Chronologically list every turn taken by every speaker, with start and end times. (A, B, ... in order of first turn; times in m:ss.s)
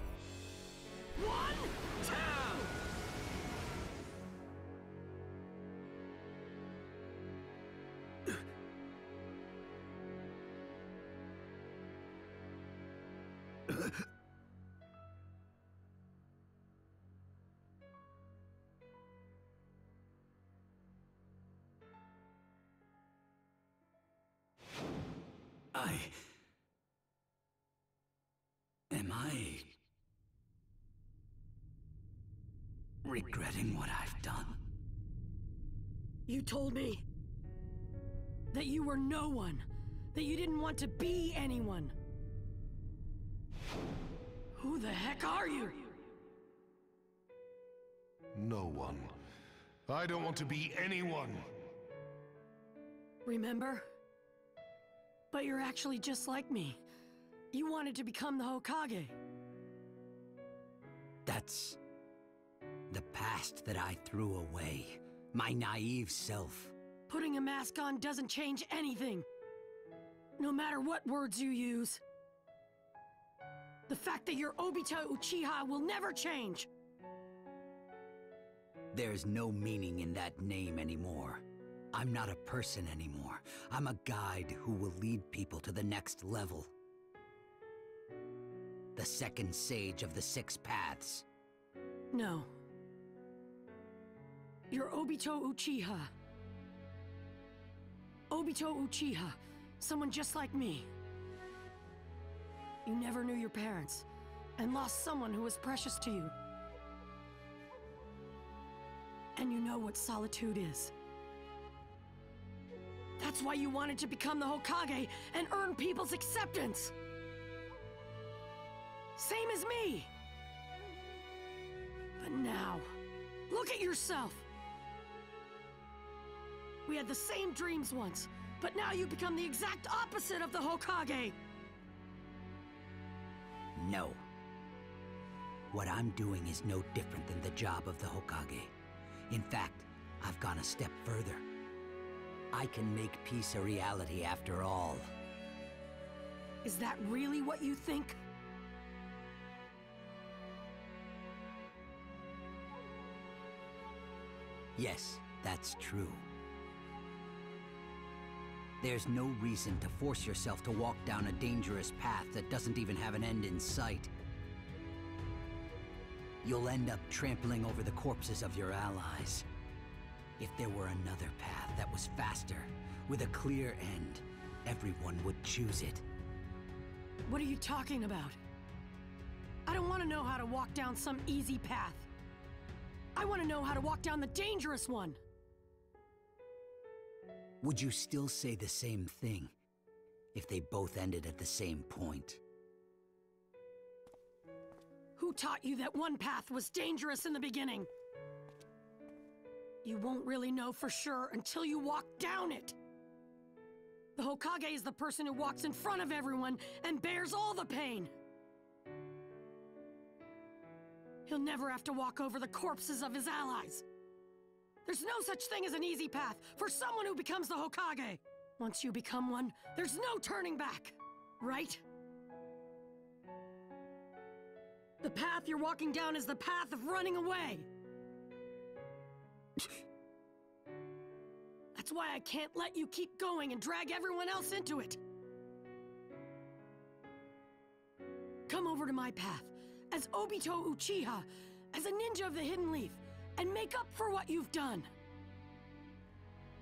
0:01.2-0:02.8 A
0:25.7-0:26.2 B
0:28.9-0:29.8 B
0:33.0-0:34.6 B
0:36.3-0:37.0 A
0:38.5-0:41.9 A
0:44.6-0:45.9 A
0:48.3-0:49.2 C
0:49.9-0:51.5 C
0:53.3-0:53.8 A
0:55.3-0:56.8 A
0:57.5-0:59.1 A
1:01.2-1:01.8 B
1:02.9-1:06.7 B
1:07.1-1:09.3 A
1:10.4-1:12.0 A
1:13.9-1:16.7 A
1:18.9-1:26.7 B
1:28.9-1:31.2 B
1:32.1-1:32.5 A
1:34.7-1:36.1 A
1:38.3-1:40.9 A
1:42.8-1:44.0 A
1:44.6-1:46.3 A
1:49.4-1:50.9 A
1:53.2-1:56.9 A
1:59.2-2:00.1 A
2:02.2-2:03.0 A
2:03.5-2:04.4 A
2:06.9-2:11.4 A
2:13.8-2:14.2 B
2:15.7-2:18.7 B
2:19.3-2:21.4 B
2:22.5-2:25.1 B
2:26.6-2:28.2 A
2:34.8-2:36.3 B
2:38.8-2:44.1 B
2:46.4-2:49.5 B
2:50.4-2:56.0 B
2:57.3-2:58.4 A
2:59.6-3:02.1 A
3:03.1-3:05.2 A
3:07.6-3:09.5 B
3:10.3-3:12.4 B
3:15.2-3:17.9 A
3:19.8-3:22.8 A
3:24.2-3:28.1 A
3:31.3-3:33.8 A
3:34.8-3:41.8 A
3:45.0-3:47.7 A
3:51.8-3:55.0 A
3:58.5-4:04.9 A